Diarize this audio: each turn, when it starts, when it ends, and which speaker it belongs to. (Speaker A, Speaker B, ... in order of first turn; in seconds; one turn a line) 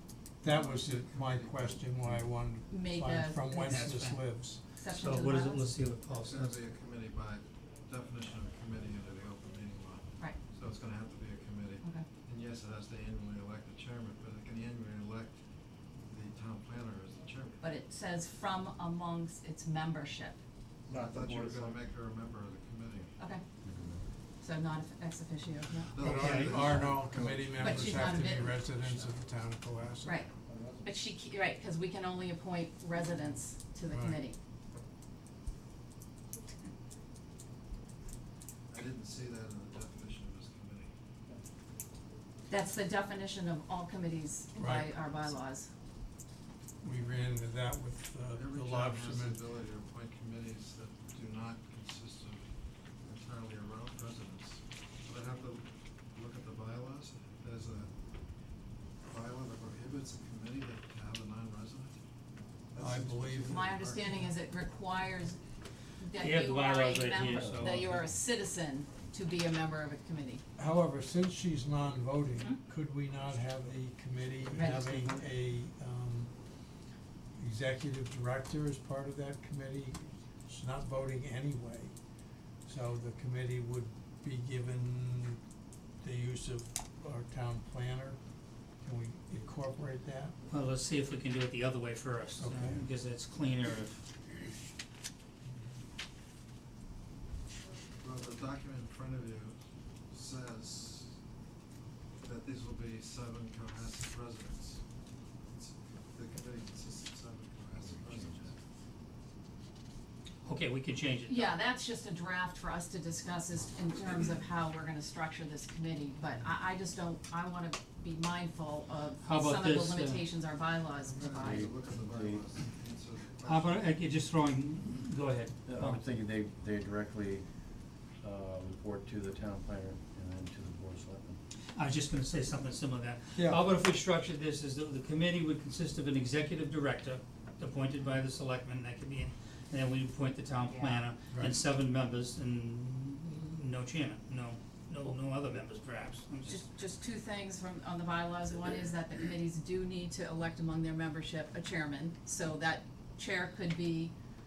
Speaker A: 0.4-4.6
Speaker B: 0.4-2.2
Speaker C: 2.7-3.8
Speaker D: 3.6-6.6
Speaker C: 4.8-5.7
Speaker B: 6.1-15.4
Speaker C: 11.8-12.1
Speaker B: 16.1-17.6
Speaker C: 17.6-20.4
Speaker B: 20.9-23.1
Speaker E: 20.9-21.8
Speaker E: 23.6-24.0
Speaker C: 24.4-26.0
Speaker B: 25.9-27.3
Speaker A: 25.9-30.2
Speaker D: 26.0-26.8
Speaker C: 26.6-26.9
Speaker E: 27.1-27.8
Speaker C: 27.5-28.9
Speaker C: 30.0-30.3
Speaker E: 30.5-30.9
Speaker C: 30.8-34.4
Speaker A: 33.9-34.2
Speaker B: 38.7-40.9
Speaker C: 42.5-45.7
Speaker A: 44.6-44.9
Speaker A: 46.8-49.4
Speaker B: 48.3-52.5
Speaker B: 53.0-57.9
Speaker B: 59.1-62.0
Speaker B: 62.7-64.2
Speaker A: 62.8-63.7
Speaker C: 63.4-65.4
Speaker C: 66.0-70.4
Speaker D: 66.2-68.0
Speaker A: 70.6-76.3
Speaker C: 74.5-75.1
Speaker A: 77.3-81.9
Speaker A: 82.7-85.4
Speaker A: 86.0-88.2
Speaker A: 88.8-90.3
Speaker D: 90.5-94.0
Speaker A: 92.4-92.8
Speaker B: 98.0-99.6
Speaker B: 100.1-101.2
Speaker B: 102.2-104.8
Speaker B: 105.4-108.6
Speaker D: 110.4-111.5
Speaker C: 111.3-121.7
Speaker D: 119.2-120.2
Speaker B: 121.1-123.9
Speaker E: 121.4-122.5
Speaker D: 123.4-126.0
Speaker E: 125.7-127.5
Speaker E: 128.2-131.4
Speaker D: 131.7-146.6
Speaker A: 133.3-133.6
Speaker C: 140.7-141.1
Speaker A: 141.3-141.5
Speaker C: 146.4-154.1